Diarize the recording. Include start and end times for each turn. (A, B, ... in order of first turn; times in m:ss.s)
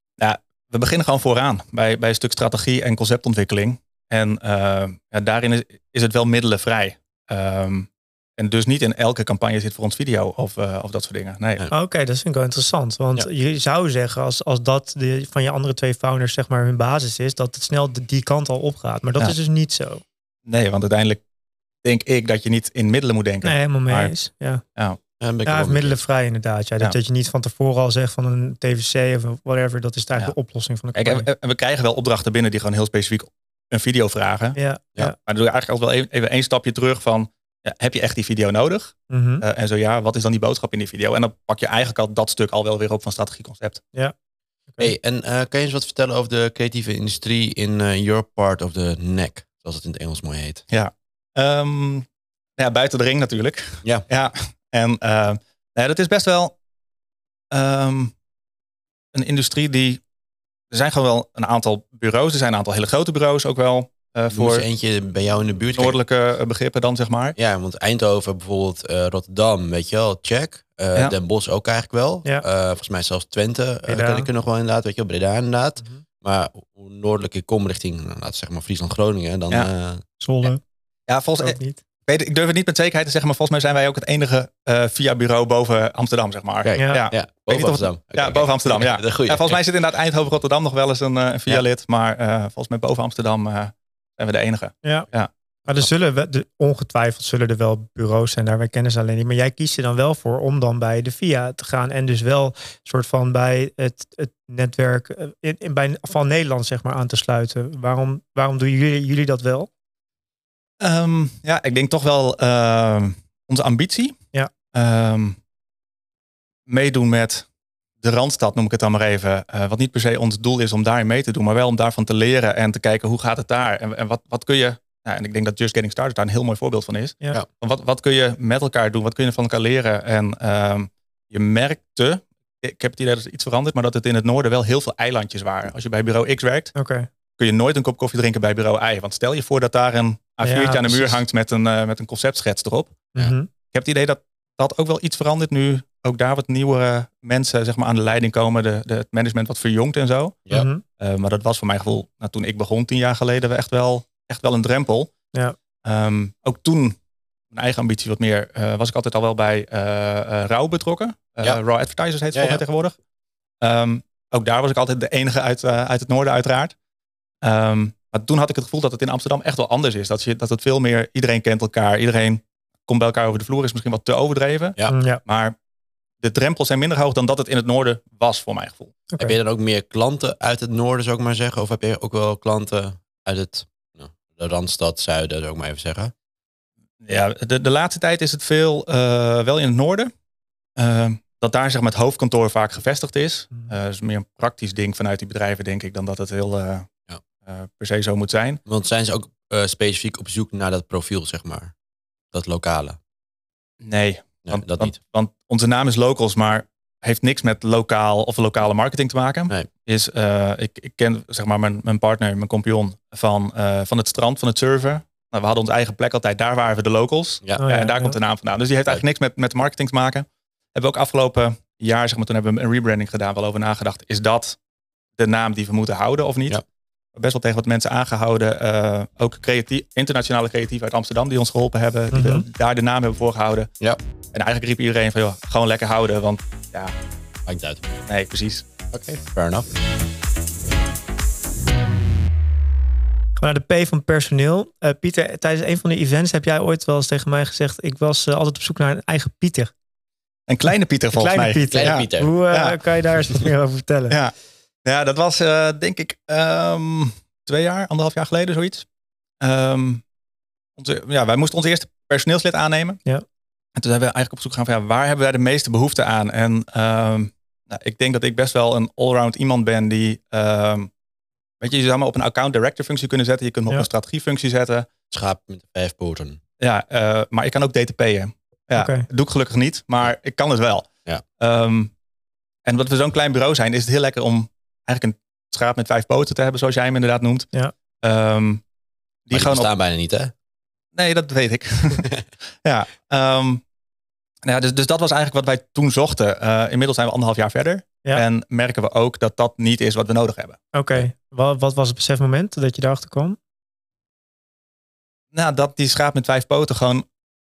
0:00.2-0:11.6 A
0:11.7-0:20.0 B
0:20.5-0:21.2 A
0:21.8-0:24.1 A
0:23.4-0:24.6 B
0:25.2-0:26.0 C
0:25.4-0:31.3 B
0:31.0-0:34.6 A
0:34.6-0:35.2 B
0:35.2-0:43.8 A
0:39.1-0:39.4 B
0:44.8-0:50.6 C
0:50.7-0:52.1 A
0:52.6-0:56.5 A
0:57.5-0:58.1 A
0:59.1-1:00.0 A
1:00.7-1:04.7 A
1:04.3-1:06.0 C
1:05.8-1:07.4 A
1:07.4-1:20.0 C
1:13.9-1:14.3 B
1:20.2-1:20.6 B
1:21.1-1:35.3 A
1:21.4-1:21.8 B
1:26.6-1:29.6 C
1:26.8-1:27.1 B
1:35.7-1:49.7 B
1:50.8-1:54.2 A
1:54.7-1:55.4 A
1:56.7-1:57.5 A
1:58.0-2:16.7 A
2:16.8-2:17.1 B
2:17.4-2:23.1 A
2:20.4-2:21.2 B
2:23.2-2:23.5 B
2:23.7-2:30.4 A
2:30.5-2:30.8 B
2:31.0-2:35.1 A
2:35.8-2:37.0 A
2:37.5-2:43.0 A
2:42.3-2:42.6 C
2:43.6-2:46.8 A
2:47.4-2:55.6 A
2:54.9-2:55.2 B
2:56.2-2:59.0 A
2:59.1-2:59.4 B
2:59.2-3:06.1 C
3:07.0-3:10.1 A
3:10.8-3:16.9 A
3:17.5-3:18.6 A
3:18.7-3:21.7 C
3:22.3-3:23.0 C
3:23.8-3:44.6 A
3:24.4-3:24.9 C
3:37.6-3:38.2 B
3:45.2-3:46.6 A
3:47.2-3:53.7 A
3:52.1-3:52.4 B
3:54.3-3:57.0 A
3:57.5-3:57.9 C
3:58.1-3:58.7 A
3:58.9-3:59.7 C
4:03.4-4:09.7 B
4:10.5-4:12.8 A
4:11.1-4:14.2 B
4:11.7-4:12.4 C
4:14.8-4:18.9 A
4:19.4-4:20.0 A
4:20.8-4:23.0 A
4:23.8-4:30.9 A
4:31.6-4:34.9 A
4:35.1-4:36.4 C
4:36.6-4:41.9 A
4:38.8-4:39.1 B
4:42.6-4:47.5 A
4:48.0-4:48.6 A
4:49.3-4:49.7 A
4:49.3-4:50.3 C
4:51.0-4:52.1 A
4:52.6-4:53.6 A
4:54.4-5:00.6 A
5:00.7-5:03.4 B
5:05.3-5:07.1 A